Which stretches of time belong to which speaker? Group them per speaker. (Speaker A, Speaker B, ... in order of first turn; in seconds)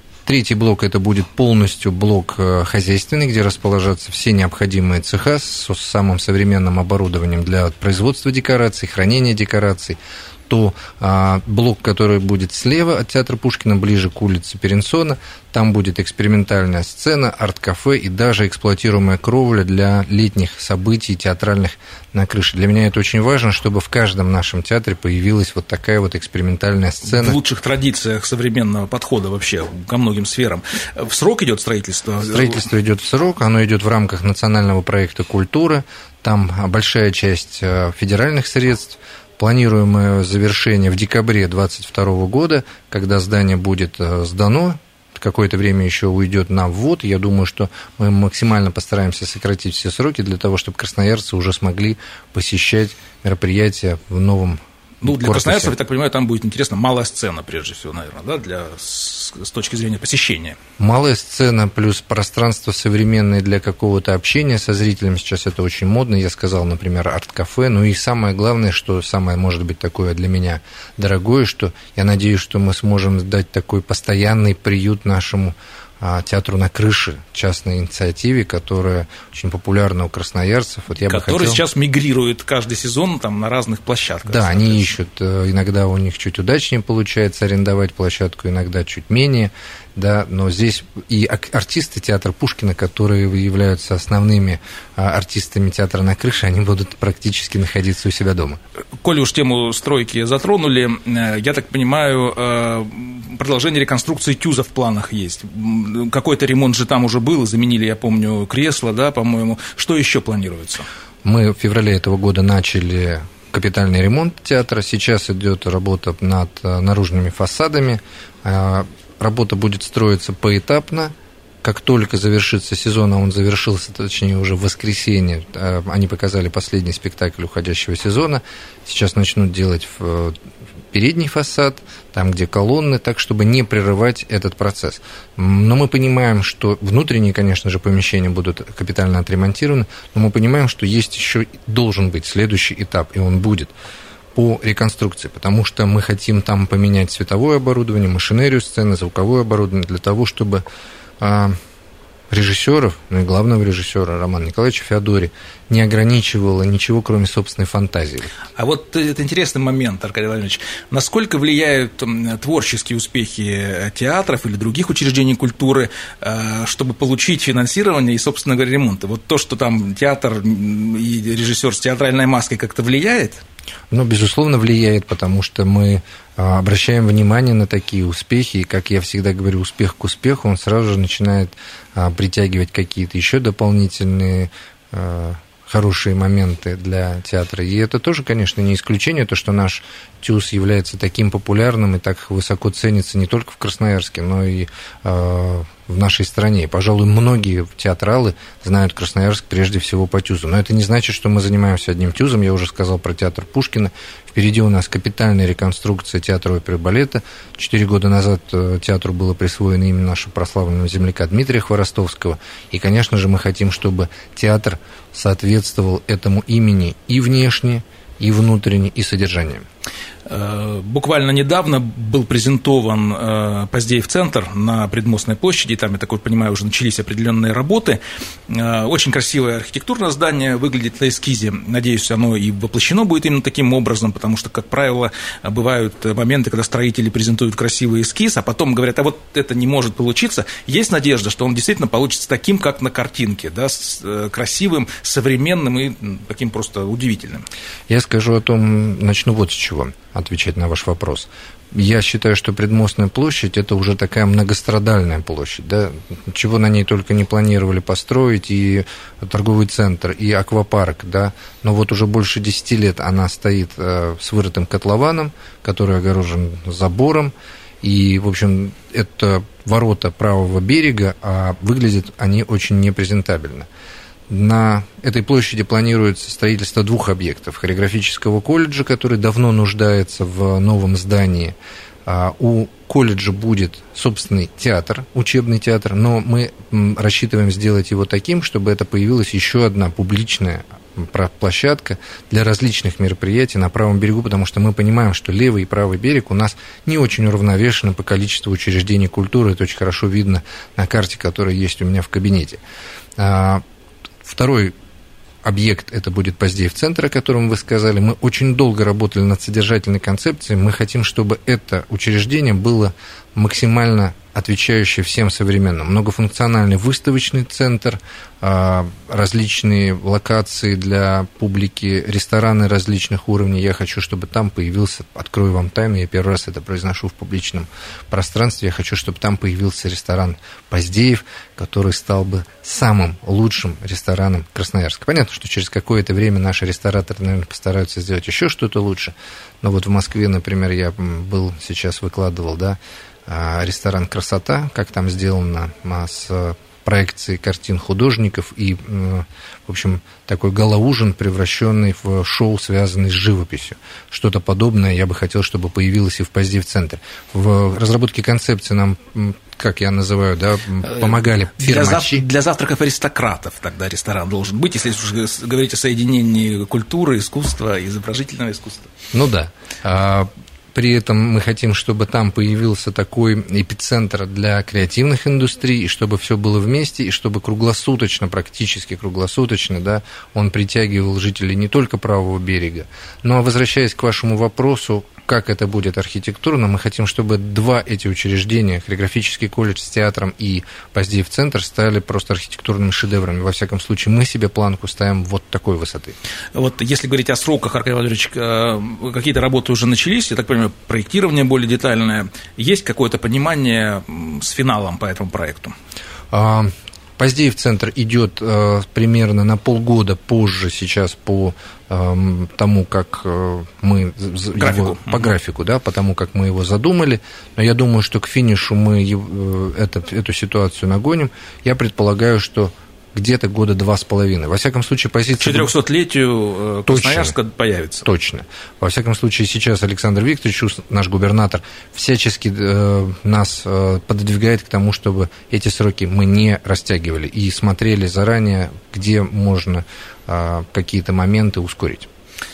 Speaker A: 0.2-27.4, 32.2-55.7, 60.8-81.6, 84.2-98.6, 111.2-130.4, 130.9-143.7, 144.3-150.6, 151.2-151.6, 152.3-158.3, 173.9-219.7, 247.9-273.7, 274.3-302.6, 303.2-303.6, 304.2-304.7, 305.4-362.2, 369.1-396.1, 406.3-425.7, 426.9-427.3, 428.0-442.1
Speaker B: 27.0-32.6, 55.0-60.6, 81.0-84.9, 99.0-110.8, 158.6-173.4, 220.3-247.4, 360.9-368.9, 396.5-405.7, 414.6-415.3, 425.4-428.1